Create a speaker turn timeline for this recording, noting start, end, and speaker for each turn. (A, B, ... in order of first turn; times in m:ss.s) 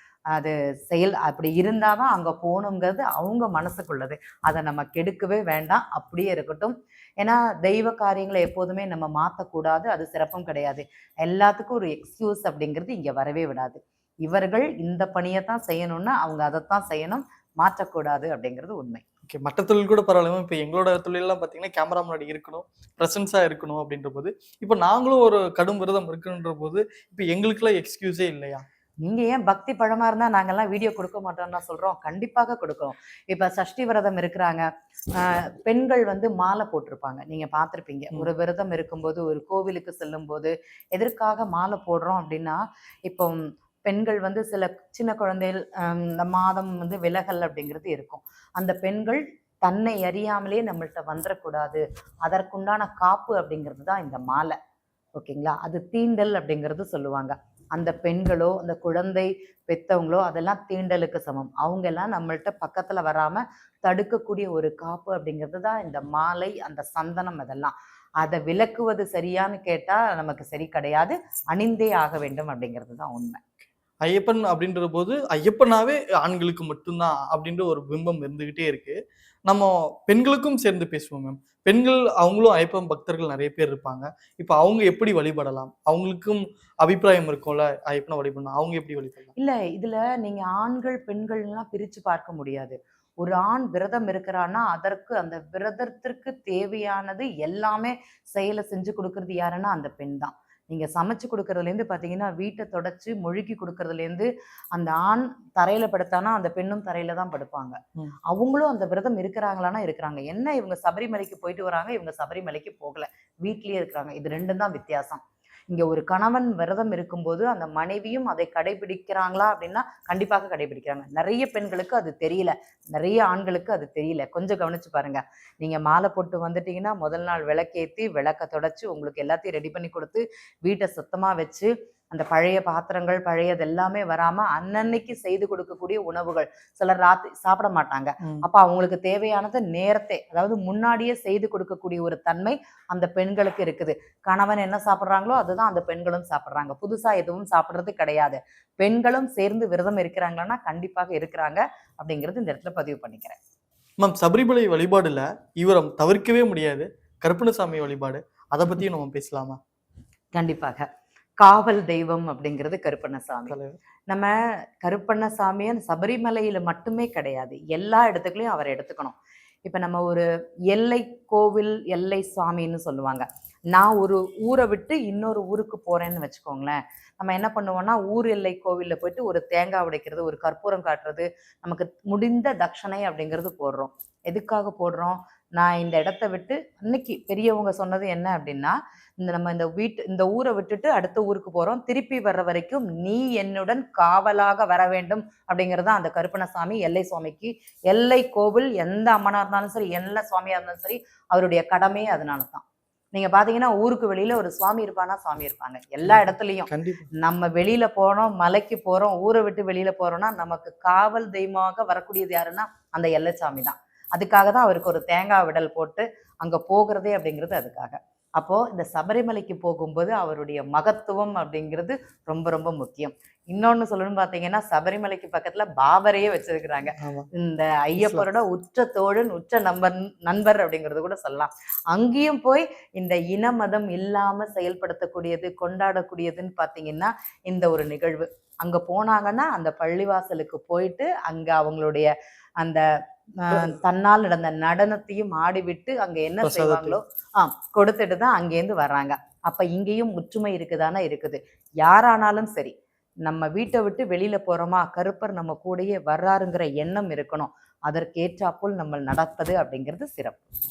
0:00.3-0:19.0 A
0:19.3-0:28.6 B
0:29.0-0:34.6 A
0:35.2-0:54.6 A
0:55.2-1:13.4 A
1:14.0-1:19.0 B
1:19.5-1:29.3 B
1:29.4-1:47.8 A
1:48.3-2:33.4 A
2:34.0-2:39.6 B
2:40.3-2:40.9 A
2:41.4-2:43.6 A
2:43.5-2:43.8 B
2:44.1-3:22.6 A
3:23.1-4:02.8 A
3:26.0-3:27.1 B
3:47.0-3:47.3 B
3:48.0-3:48.2 B
4:03.4-4:12.7 A
4:06.4-4:07.0 B
4:13.2-4:20.4 A